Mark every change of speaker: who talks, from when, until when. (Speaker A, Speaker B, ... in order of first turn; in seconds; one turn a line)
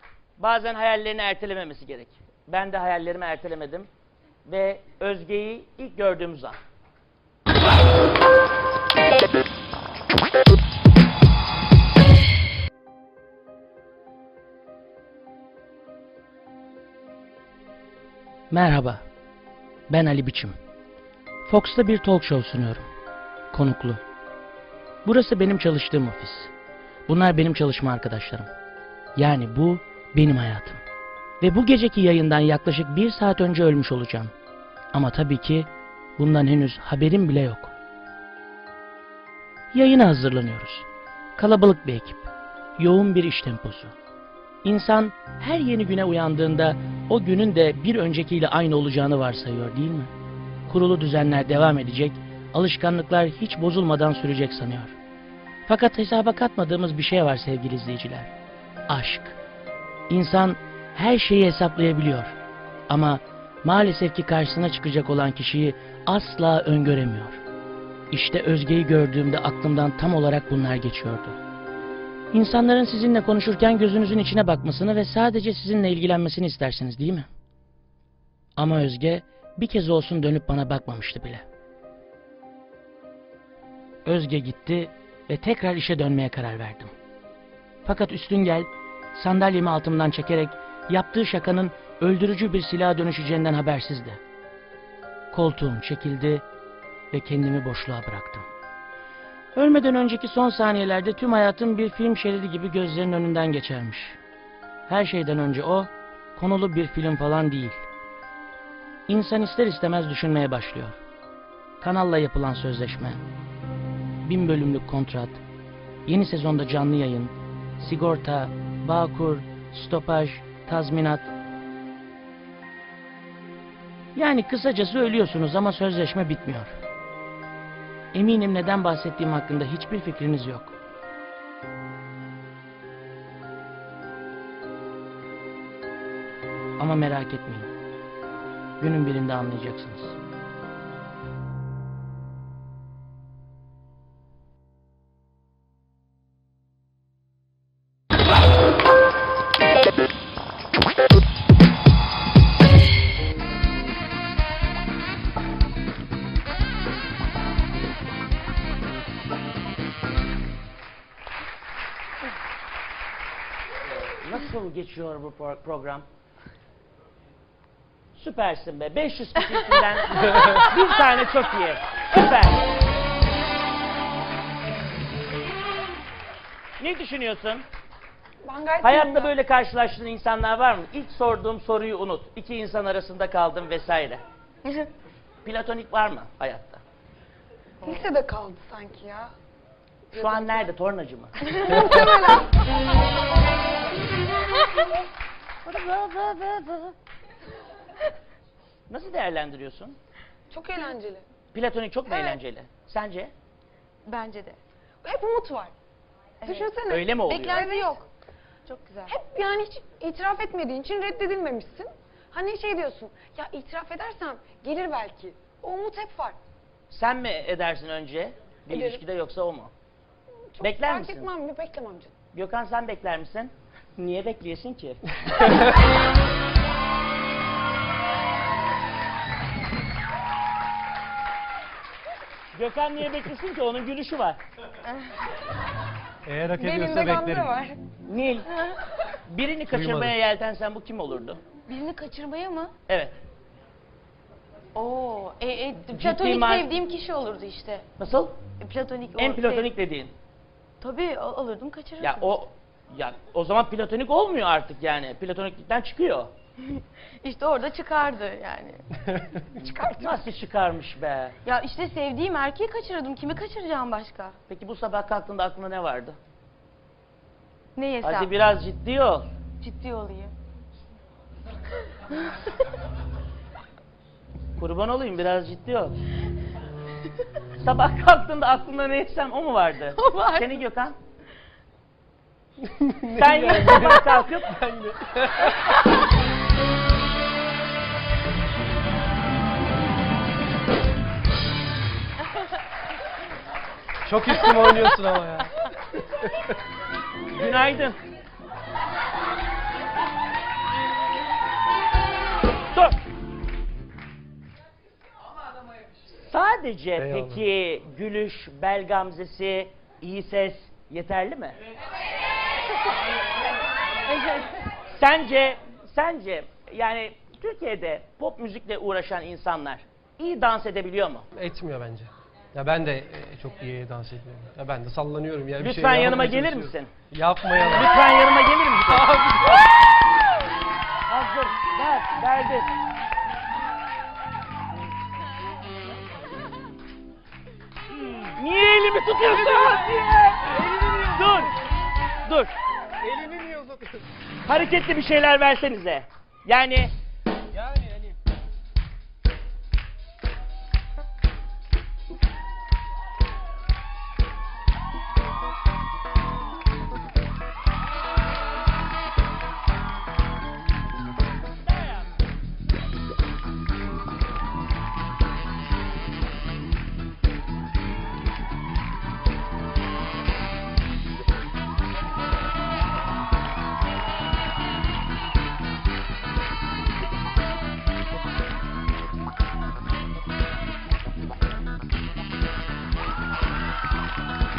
Speaker A: 0.4-3.9
Speaker A: 4.5-6.6
Speaker A: 18.5-19.0
Speaker A: 19.9-20.6
Speaker A: 21.5-22.9
Speaker A: 23.5-24.0
Speaker A: 25.1-26.5
Speaker A: 27.1-28.5
Speaker A: 29.2-30.8
Speaker A: 31.4-34.3
Speaker A: 34.9-37.7
Speaker A: 39.7-44.0
Speaker A: 44.6-50.1
Speaker A: 50.7-55.0
Speaker A: 55.7-58.3
Speaker A: 58.9-59.4
Speaker A: 60.1-62.4
Speaker A: 62.9-67.4
Speaker A: 68.1-71.4
Speaker A: 72.3-77.3
Speaker A: 78.6-81.5
Speaker A: 84.0-86.9
Speaker A: 87.9-94.2
Speaker A: 95.3-96.5
Speaker A: 97.1-98.5
Speaker A: 99.6-104.2
Speaker A: 104.9-107.9
Speaker A: 109.1-111.0
Speaker A: 111.8-113.2
Speaker A: 114.2-115.4
Speaker A: 116.1-121.3
Speaker A: 124.2-126.8
Speaker A: 128.1-130.7
Speaker A: 136.8-137.7
Speaker A: 138.8-140.2
Speaker A: 163.8-166.1
Speaker A: 168.2-172.6
Speaker A: 176.8-177.7
Speaker B: 178.4-179.3
Speaker A: 178.8-184.2
Speaker A: 185.4-186.8
Speaker B: 187.8-189.3
Speaker B: 190.1-190.7
Speaker A: 190.2-191.3
Speaker B: 191.4-192.5
Speaker A: 195.7-196.9
Speaker A: 198.9-200.0
Speaker B: 200.5-201.2
Speaker A: 201.5-203.3
Speaker B: 202.1-202.4
Speaker C: 204.1-204.6
Speaker B: 205.0-205.7
Speaker C: 206.4-208.1
Speaker B: 206.5-207.9
Speaker A: 206.9-207.6
Speaker C: 208.7-209.2
Speaker B: 209.1-216.4
Speaker A: 216.9-219.7
Speaker B: 218.7-219.0
Speaker B: 220.5-222.1
Speaker A: 220.6-221.3
Speaker A: 222.3-225.7
Speaker A: 232.5-234.4
Speaker D: 236.3-237.5
Speaker B: 236.6-237.8
Speaker A: 238.1-238.5
Speaker A: 239.3-241.4
Speaker D: 239.7-240.2
Speaker C: 241.6-242.8
Speaker A: 242.9-243.2
Speaker C: 244.8-247.9
Speaker A: 245.9-246.7
Speaker A: 248.0-248.4
Speaker C: 248.6-249.7
Speaker A: 249.2-250.1
Speaker C: 250.8-252.4
Speaker A: 252.0-256.3
Speaker C: 256.7-258.8
Speaker B: 259.6-260.2
Speaker A: 260.0-261.4
Speaker C: 261.4-264.4
Speaker A: 264.5-266.2
Speaker C: 267.8-268.3
Speaker A: 268.0-269.3
Speaker C: 269.6-270.3
Speaker A: 274.6-276.0
Speaker A: 277.6-281.0
Speaker C: 279.9-280.5
Speaker D: 282.6-285.7
Speaker A: 283.2-284.5
Speaker D: 294.0-295.5
Speaker A: 297.3-298.0
Speaker A: 306.3-311.6
Speaker D: 307.0-307.4
Speaker A: 314.9-321.3
Speaker D: 321.3-328.0
Speaker A: 325.6-326.9
Speaker A: 327.7-329.2
Speaker D: 328.8-329.6
Speaker A: 331.1-332.7
Speaker A: 338.4-340.5
Speaker D: 339.2-341.4
Speaker A: 341.1-341.5
Speaker A: 342.3-342.5
Speaker D: 343.0-344.0
Speaker A: 344.5-346.9
Speaker D: 347.5-348.2